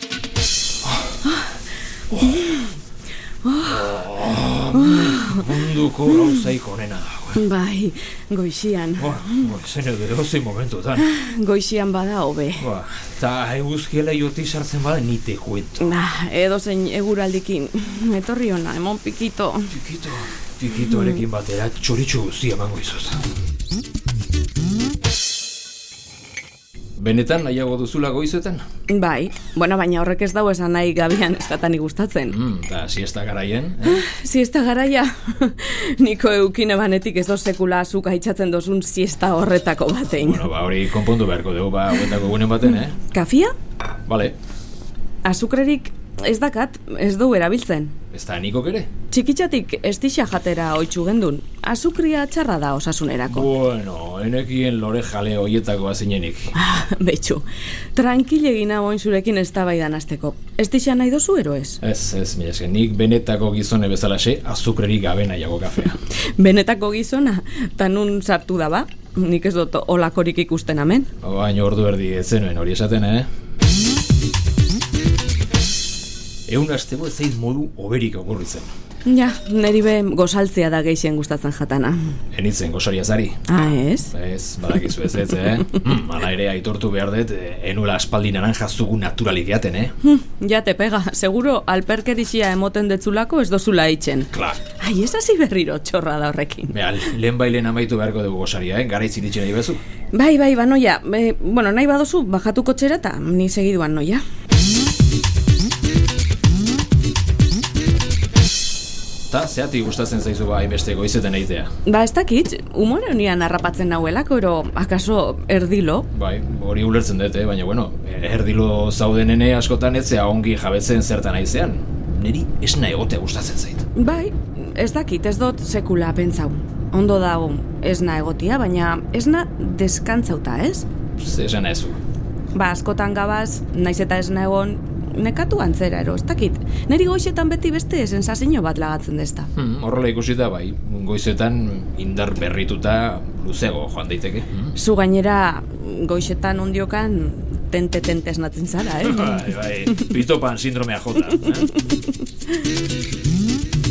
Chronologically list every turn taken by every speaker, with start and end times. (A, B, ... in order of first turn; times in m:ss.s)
0:02.1-0:02.5 A
0:03.4-0:03.8 B
0:03.6-0:07.5 A
0:04.8-0:05.4 B
0:07.4-0:09.3 B
0:09.0-0:11.1 A
0:11.0-0:12.7 B
0:12.6-0:16.0 A
0:15.8-0:19.8 B
0:19.7-0:23.2 A
0:27.0-0:28.6 A
0:28.9-0:32.4 B
0:32.3-0:34.0 A
0:33.8-0:40.5 B
0:40.1-0:43.0 A
0:43.1-0:43.5 B
0:44.1-0:44.4 A
0:45.2-0:48.0 B
0:48.1-0:48.9 A
0:49.1-0:53.5 B
0:53.3-0:56.5 A
0:56.6-1:01.8 B
1:01.8-1:06.0 A
1:06.4-1:11.1 B
1:11.2-1:13.3 A
1:16.5-1:18.7 A
1:19.1-1:22.2 B
1:22.3-1:23.4 A
1:23.5-1:24.1 B
1:24.1-1:29.9 A
1:30.0-1:37.0 B
1:34.3-1:34.6 A
1:36.7-1:39.8 A
1:40.1-1:44.2 B
1:49.3-1:51.7 A
1:51.9-1:56.1 B
1:56.1-2:03.8 A
2:04.0-2:10.9 B
2:11.2-2:12.0 A
2:12.5-2:19.5 B
2:19.6-2:24.8 A
2:24.8-2:30.0 B
2:29.0-2:31.8 A